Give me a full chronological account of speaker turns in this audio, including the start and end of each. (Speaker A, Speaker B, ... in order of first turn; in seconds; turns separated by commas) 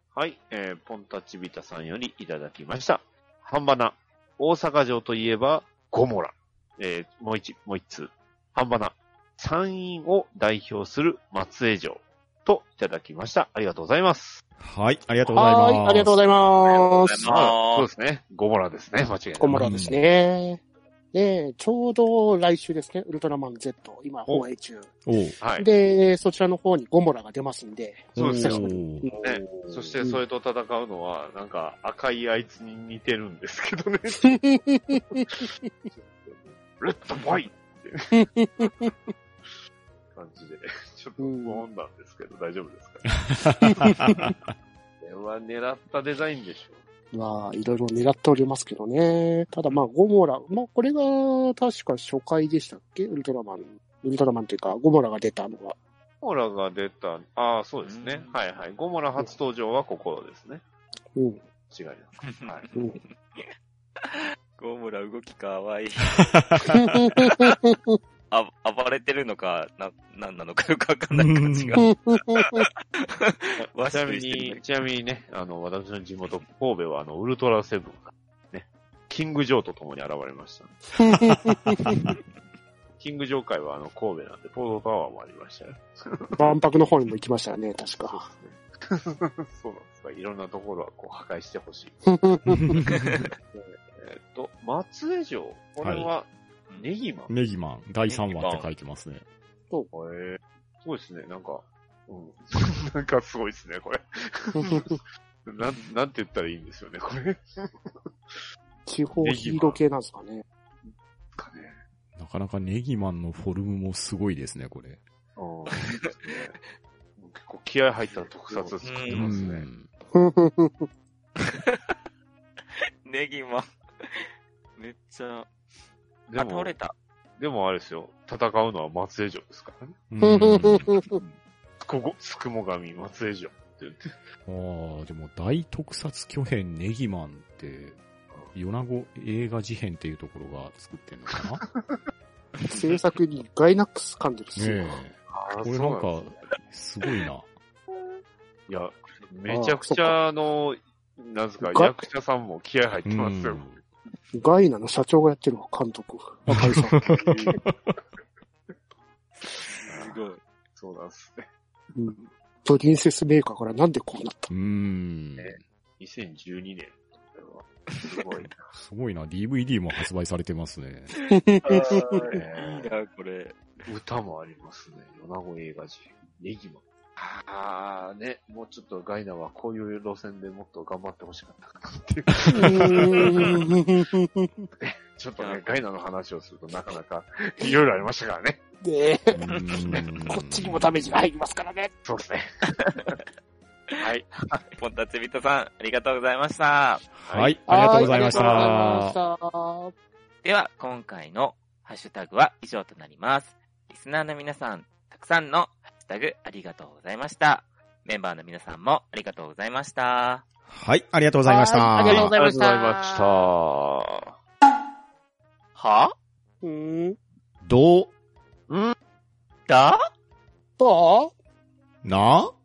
Speaker A: 0.1-14.4, Speaker B: 14.6-16.2, Speaker C: 15.3-17.3, Speaker D: 16.6-17.9, Speaker A: 17.2-19.6, Speaker C: 19.4-20.6, Speaker B: 19.5-20.0, Speaker C: 21.1-24.9, Speaker B: 25.1-25.4, Speaker A: 25.4-25.7, Speaker C: 25.6-29.2, Speaker B: 28.2-29.1, Speaker A: 28.2-34.4, Speaker C: 34.1-35.7, Speaker A: 35.1-38.2, Speaker C: 38.1-39.1, Speaker A: 40.1-43.2, Speaker C: 41.2-41.6, Speaker B: 43.3-44.4, Speaker C: 43.6-44.3, Speaker A: 45.0-46.8, Speaker C: 47.1-55.8, Speaker A: 56.2-60.6, Speaker D: 57.9-58.4, Speaker C: 61.1-61.4, Speaker A: 61.7-62.7, Speaker D: 62.2-63.5, Speaker D: 64.0-66.3, Speaker B: 66.3-67.1, Speaker C: 66.7-68.0, Speaker D: 67.3-67.6, Speaker D: 68.3-74.6, Speaker B: 71.1-71.8, Speaker C: 71.8-72.7, Speaker A: 73.6-80.8, Speaker C: 81.0-82.0, Speaker B: 81.8-82.1, Speaker A: 83.0-86.6, Speaker C: 86.4-88.3, Speaker A: 88.0-92.0, Speaker C: 92.1-92.7, Speaker B: 92.5-93.3, Speaker D: 93.0-93.2, Speaker A: 93.5-97.3, Speaker B: 95.8-96.1, Speaker B: 97.3-99.2, Speaker D: 98.1-98.7, Speaker A: 99.9-108.4, Speaker C: 104.6-104.9, Speaker C: 108.9-110.5, Speaker A: 109.2-109.8, Speaker A: 110.9-111.8, Speaker B: 112.2-115.0, Speaker A: 115.4-116.6, Speaker A: 117.2-119.7, Speaker D: 118.0-119.3, Speaker B: 119.1-119.9, Speaker C: 120.1-120.9, Speaker D: 121.4-122.0, Speaker D: 123.0-125.5, Speaker A: 126.3-126.8, Speaker D: 126.3-127.0, Speaker A: 127.4-130.0, Speaker B: 130.1-130.9, Speaker C: 130.2-131.2, Speaker A: 131.8-134.2, Speaker B: 134.5-138.0, Speaker B: 138.5-141.6, Speaker C: 142.7-145.0, Speaker B: 144.6-147.5, Speaker A: 145.3-146.4, Speaker A: 148.7-153.8, Speaker C: 149.5-150.2, Speaker C: 151.6-152.1, Speaker B: 153.1-153.8, Speaker C: 154.3-157.0, Speaker B: 156.5-157.7, Speaker A: 157.0-157.6, Speaker D: 159.4-160.4, Speaker A: 159.8-160.2, Speaker A: 160.8-161.5, Speaker C: 161.9-164.5, Speaker B: 164.5-165.6, Speaker A: 165.4-168.7, Speaker D: 167.9-168.2, Speaker B: 168.7-171.1, Speaker C: 171.3-172.4, Speaker D: 171.6-173.6, Speaker A: 172.3-172.9, Speaker A: 173.9-183.6, Speaker B: 182.5-182.8, Speaker C: 182.5-184.7, Speaker A: 184.8-188.6, Speaker D: 185.4-185.7, Speaker C: 188.8-189.4, Speaker B: 189.3-191.2, Speaker C: 190.3-191.9, Speaker A: 192.1-193.2, Speaker D: 192.9-193.2, Speaker A: 194.0-194.3, Speaker D: 194.5-197.0, Speaker B: 197.2-199.2, Speaker A: 197.2-198.9, Speaker C: 197.7-199.9, Speaker D: 200.4-210.5, Speaker B: 210.7-212.3, Speaker C: 211.4-213.3, Speaker A: 212.1-214.3, Speaker D: 215.8-216.1, Speaker C: 216.6-217.2, Speaker B: 217.6-218.1, Speaker A: 218.7-219.0, Speaker D: 219.7-220.0, Speaker C: 220.8-221.3, Speaker B: 222.0-222.5